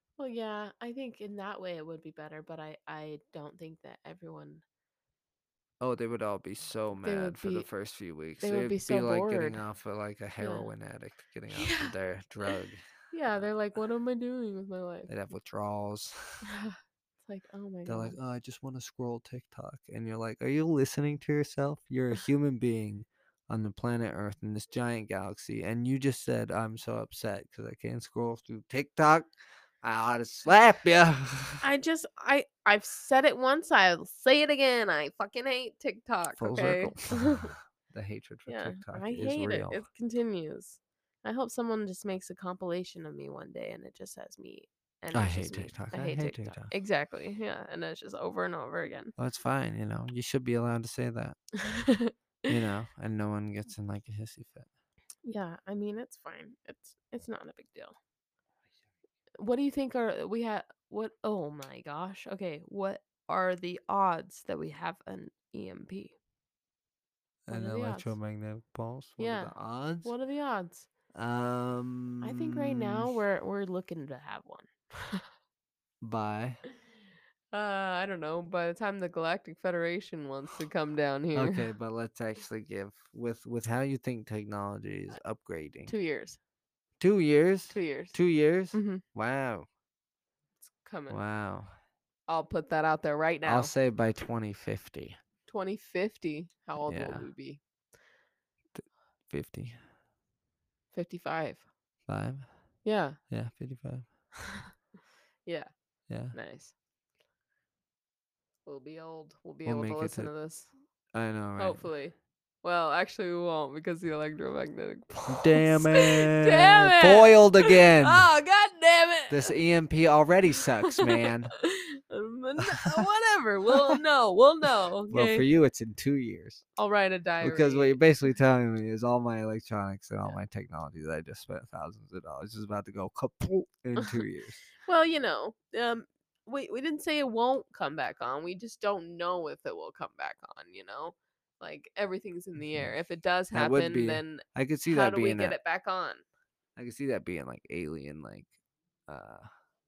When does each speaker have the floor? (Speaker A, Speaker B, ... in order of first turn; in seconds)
Speaker A: 0.2-4.6, 7.0-7.7, 8.4-9.6, 10.4-10.7, 11.5-11.9, 12.5-15.1, 16.4-18.2, 31.6-37.5, 38.5-49.1, 51.6-52.1, 55.2-58.0, 59.4-66.2, 67.5-68.2, 69.2-70.9, 72.2-75.2, 77.5-81.7, 85.9-86.4, 87.7-88.2, 88.7-89.0, 90.8-91.2, 92.3-93.7, 95.5-97.6, 100.9-101.7, 102.8-103.2, 106.3-106.8, 108.7-110.7, 111.6-119.6, 121.0-125.5, 126.8-128.0, 134.8-146.2
Speaker B: 5.8-12.8, 15.1-16.5, 17.9-29.3, 29.8-31.6, 36.4-39.8, 45.1-46.7, 49.2-51.4, 52.5-54.7, 67.5-70.1, 71.2-73.1, 76.0-76.6, 81.3-85.9, 87.0-89.7, 91.1-91.7, 93.5-95.2, 96.9-97.3, 98.7-99.8, 102.1-102.5, 103.3-104.1, 106.1-106.4, 109.7-110.3, 111.1-111.9, 115.3-118.3, 119.3-121.5, 125.1-126.7, 127.4-134.6, 143.5-145.6, 146.8-148.5, 149.1-149.5